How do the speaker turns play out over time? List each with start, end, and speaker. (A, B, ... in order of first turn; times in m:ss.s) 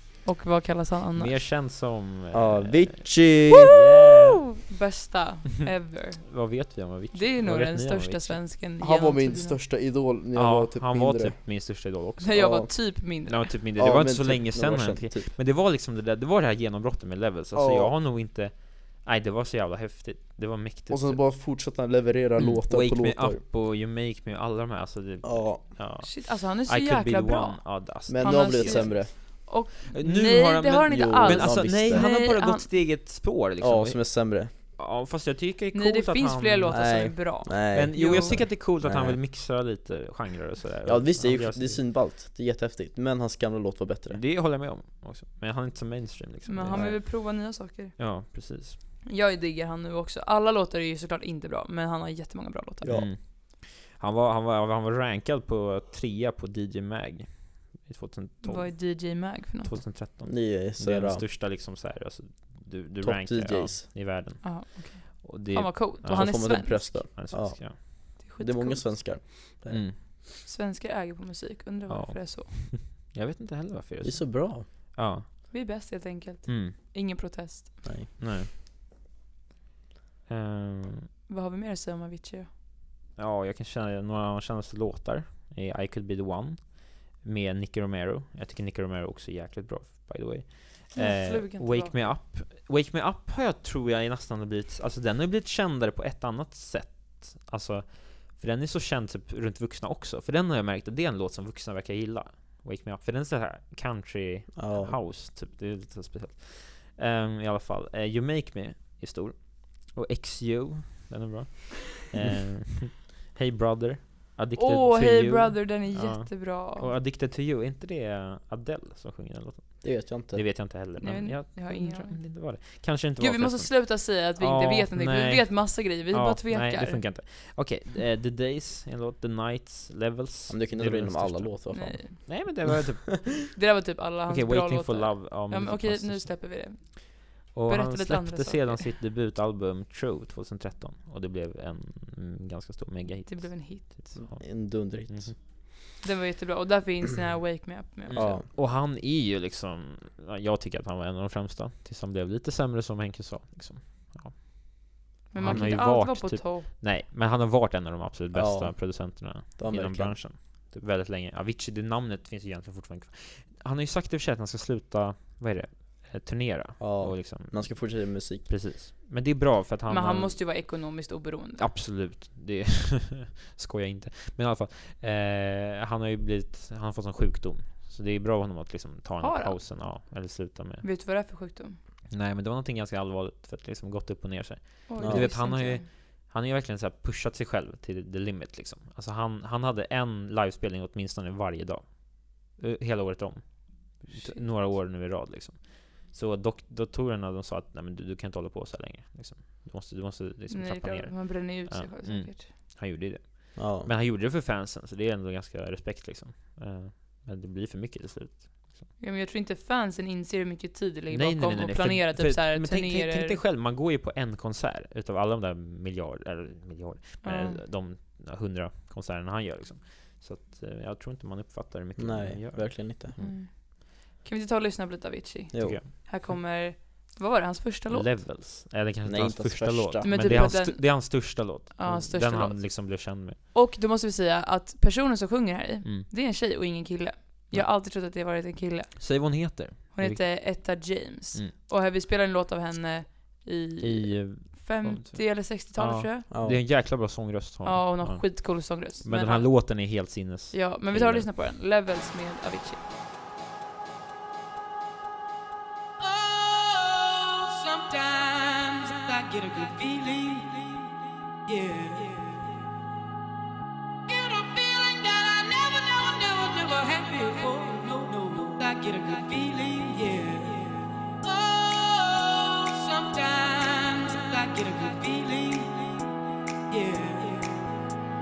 0:00.2-0:01.4 A
0:01.2-0:04.6 B
0:02.3-0:03.8 C
0:04.6-0:06.4 A
0:06.3-0:08.5 B
0:07.1-0:09.6 A
0:08.8-0:11.4 C
0:10.3-0:21.3 B
0:12.2-0:13.5 A
0:12.3-0:12.7 C
0:13.8-0:15.3 C
0:17.5-0:17.9 C
0:20.9-0:23.4 C
0:22.4-0:41.8 B
0:25.2-0:25.7 C
0:26.0-0:32.7 A
0:28.1-0:29.1 C
0:30.9-0:32.1 C
0:33.6-0:34.5 C
0:35.7-0:38.5 A
0:36.7-0:39.2 C
0:40.9-0:44.2 C
0:44.1-0:47.2 B
0:46.5-0:48.1 A
0:46.7-0:47.0 C
0:48.0-0:48.8 B
0:49.1-0:53.1 A
0:52.8-0:53.2 C
0:52.9-1:07.8 B
0:58.4-0:59.8 A
1:00.2-1:01.2 C
1:03.0-1:03.8 C
1:04.4-1:07.0 A
1:06.0-1:09.9 C
1:08.2-1:09.2 A
1:09.7-1:10.0 B
1:10.4-1:12.7 A
1:11.9-1:15.3 B
1:14.0-1:14.7 C
1:15.5-1:17.8 A
1:16.5-1:16.8 B
1:17.8-1:18.1 C
1:18.2-1:18.5 B
1:20.3-1:21.1 B
1:21.3-1:22.5 A
1:23.2-2:13.5 B
1:31.0-1:32.0 A
1:44.6-1:45.0 C
1:54.6-1:56.9 A
1:59.8-2:00.5 C
2:01.0-2:02.6 A
2:03.2-2:07.0 A
2:10.5-2:12.5 C
2:11.7-2:12.2 A
2:13.5-2:18.9 A
2:14.3-2:17.0 B
2:17.5-2:25.4 B
2:23.3-2:23.9 A
2:24.2-2:25.4 C
2:26.0-2:28.2 A
2:28.1-2:50.5 B
2:28.1-2:28.5 C
2:35.3-2:36.7 A
2:35.4-2:35.7 C
2:38.3-2:40.2 C
2:46.8-2:48.5 C
2:49.9-2:51.7 A
2:51.6-3:00.9 B
2:59.2-2:59.6 A
3:00.8-3:01.8 A
3:02.1-3:28.9 B
3:04.9-3:05.9 A
3:05.0-3:05.3 C
3:14.1-3:14.4 A
3:20.5-3:22.4 A
3:23.6-3:23.9 C
3:29.0-3:33.4 A
3:31.1-3:43.4 B
3:37.2-3:37.6 A
3:42.0-3:43.1 C
3:43.2-3:48.1 A
3:45.5-3:45.8 C
3:45.6-3:45.9 B
3:47.9-3:53.4 B
3:49.0-3:50.5 C
3:50.0-4:06.2 A
3:55.8-3:56.1 B
3:59.0-4:01.5 B
4:03.8-4:11.3 B
4:06.3-4:06.6 C
4:07.6-4:10.0 A
4:10.5-4:12.8 A
4:16.0-4:22.6 D
4:24.1-4:36.1 D
4:36.7-4:37.7 D